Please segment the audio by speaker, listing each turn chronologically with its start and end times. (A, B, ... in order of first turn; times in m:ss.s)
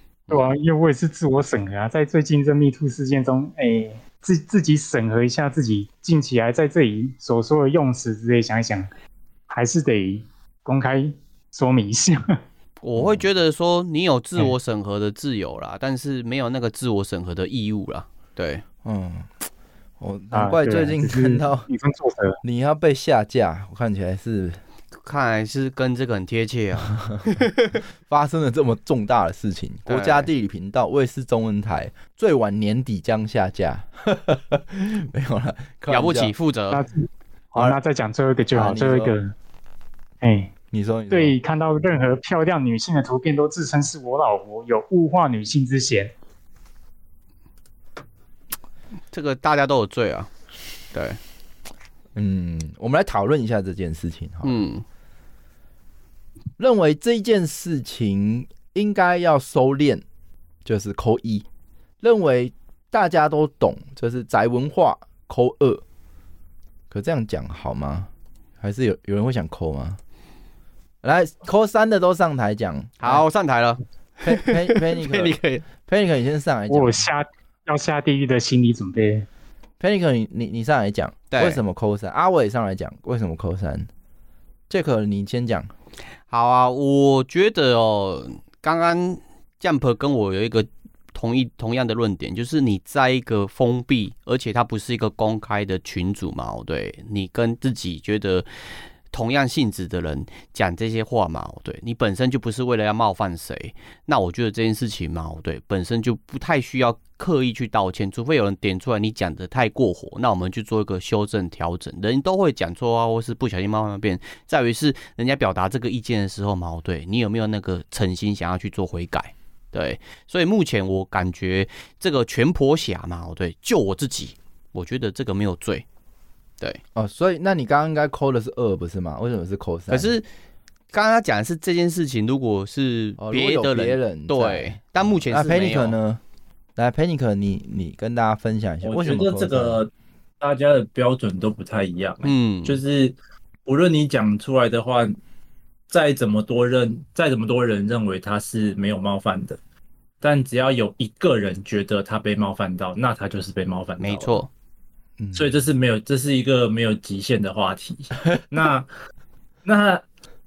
0:00.3-0:00.5 A
0:00.3-0:08.9 B
0:09.5-0:12.4 B
0:12.8-0:18.6 A
0:13.0-0:13.2 C
0:18.8-0:19.3 C
0:20.0-0:21.7 C
0:20.3-0:22.4 B
0:22.4-0:24.6 C
0:25.0-0:27.8 A
0:26.8-0:27.3 C
0:28.0-0:36.3 C
0:29.9-0:30.3 A
0:35.9-0:36.8 A
0:36.7-0:39.3 B
0:38.5-0:39.1 C
0:40.2-0:40.5 B
0:40.7-0:41.3 C
0:41.1-0:46.1 B
0:49.1-0:50.3 A
0:50.9-0:51.2 A
0:52.1-0:54.6 C
0:54.4-0:54.8 A
0:56.6-1:00.0 C
1:00.6-1:01.4 C
1:02.0-1:05.8 C
1:06.9-1:10.0 C
1:11.0-1:13.2 C
1:13.0-1:15.6 A
1:14.2-1:17.0 C
1:16.7-1:19.3 B
1:19.8-1:23.9 C
1:21.3-1:21.6 A
1:24.7-1:25.7 C
1:26.3-1:38.5 A
1:39.1-2:05.8 A
2:07.0-2:10.1 C
2:09.9-2:10.2 A
2:10.9-2:16.0 A
2:13.2-2:16.2 C
2:16.8-2:19.8 C
2:18.8-2:19.9 D
2:20.4-2:25.2 D
2:22.2-2:22.8 A
2:25.9-2:29.6 D
2:30.2-2:34.4 D
2:34.0-2:34.5 A
2:35.2-2:35.5 C
2:35.3-2:38.9 D
2:39.6-2:40.0 D